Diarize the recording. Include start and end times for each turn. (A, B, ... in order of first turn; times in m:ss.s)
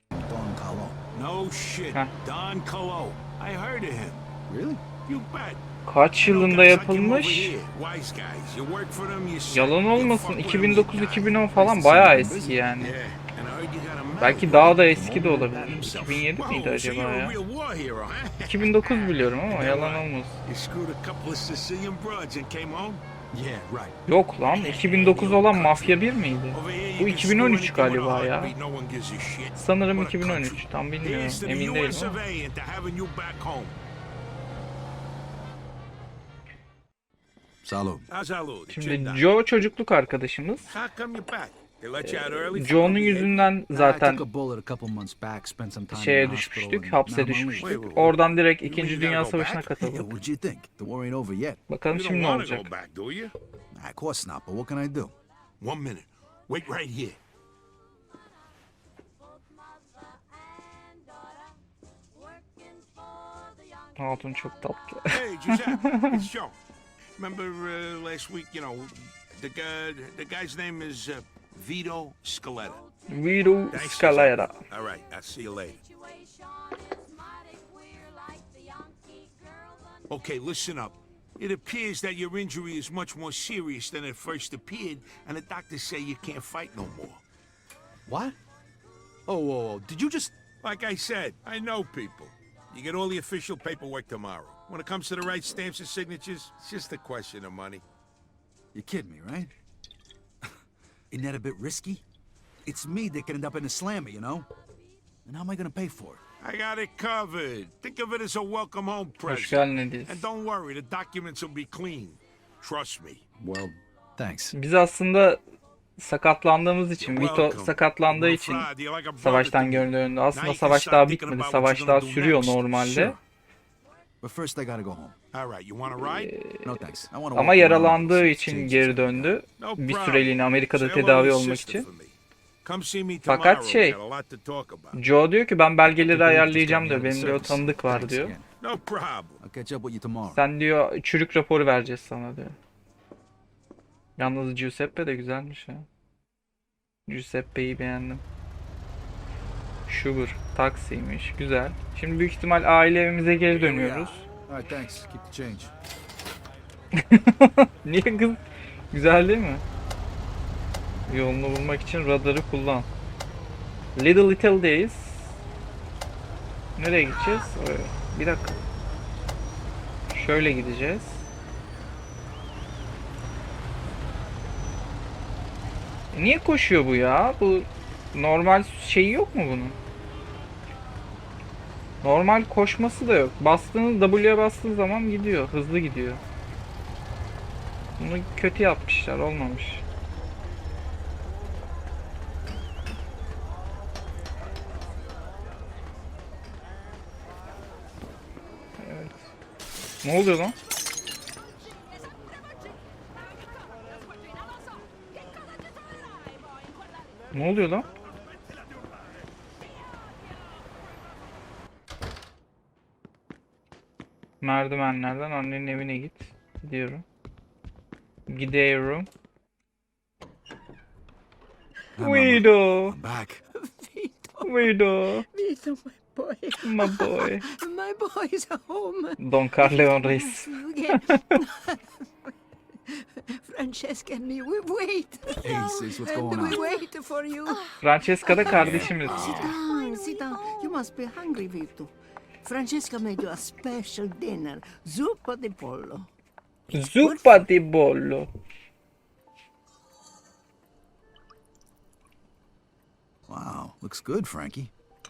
0:00.1-0:01.0 A
0:01.1-0:04.2 B
0:04.5-0:04.8 A
0:05.0-0:05.6 B
0:05.8-0:07.6 C
0:06.2-0:11.4 B
0:09.5-0:12.9 C
0:11.5-0:12.6 A
0:12.8-0:23.0 B
0:14.2-0:17.4 C
0:14.9-0:16.2 A
0:18.4-0:20.4 C
0:23.3-0:24.0 A
0:24.1-0:28.5 C
0:24.5-0:25.9 B
0:24.8-0:25.9 A
0:26.5-0:33.8 B
0:29.6-0:32.2 C
0:37.6-0:38.1 A
0:38.1-0:39.2 B
0:38.7-0:40.7 C
0:40.7-0:43.5 B
0:42.0-0:44.2 C
0:43.7-0:47.9 A
0:45.9-0:50.1 C
0:47.6-0:49.8 B
0:49.8-0:51.6 A
0:51.7-0:52.7 C
0:51.9-0:53.4 B
0:53.7-0:55.1 A
0:55.6-0:57.2 B
1:04.0-1:06.2 C
1:05.1-1:06.6 B
1:07.2-1:12.9 B
1:13.1-1:14.6 C
1:13.7-1:15.9 B
1:20.1-1:27.2 B
1:28.0-1:28.4 A
1:29.2-1:30.4 A
1:30.6-1:37.8 B
1:38.7-1:39.5 A
1:41.1-1:42.0 A
1:42.6-1:44.5 A
1:45.2-1:46.2 A
1:46.4-1:53.2 B
1:49.2-1:50.2 C
1:53.4-1:54.6 A
1:54.5-1:55.4 C
1:56.0-2:03.2 C
1:57.0-2:02.8 B
2:02.8-2:03.2 A
2:04.2-2:05.2 A
2:05.3-2:06.3 B
2:06.0-2:11.9 C
2:06.6-2:09.4 A
2:09.6-2:15.0 B
2:13.2-2:14.0 C
2:14.9-2:18.3 C
2:16.0-2:18.5 A
2:18.6-2:19.4 B
2:19.4-2:20.4 A
2:20.3-2:22.6 C
2:24.2-2:25.9 C
2:27.1-2:28.2 C
2:29.9-2:34.2 C
2:33.5-2:35.7 A
2:36.9-2:39.6 C
2:41.1-2:42.9 C
2:44.0-2:45.4 C
2:46.8-2:48.6 C
2:50.1-2:51.2 C
2:56.1-2:59.8 C
3:02.0-3:06.2 C
3:08.0-3:09.8 C
3:18.8-3:19.2 C
3:20.0-3:20.6 C
3:27.3-3:27.9 C
3:34.4-3:37.0 C
3:38.3-3:39.1 C
3:42.0-3:43.4 A
3:42.0-3:43.0 C
3:43.6-3:52.3 D
3:44.4-3:45.3 C
3:46.6-3:47.4 C
3:49.2-3:50.6 C
3:52.9-4:06.1 D
3:55.4-3:56.6 A
3:57.8-3:59.6 C
3:58.4-3:59.4 A
3:58.6-3:59.2 B
4:06.7-4:08.3 C
4:07.0-4:07.4 D
4:13.3-4:14.7 A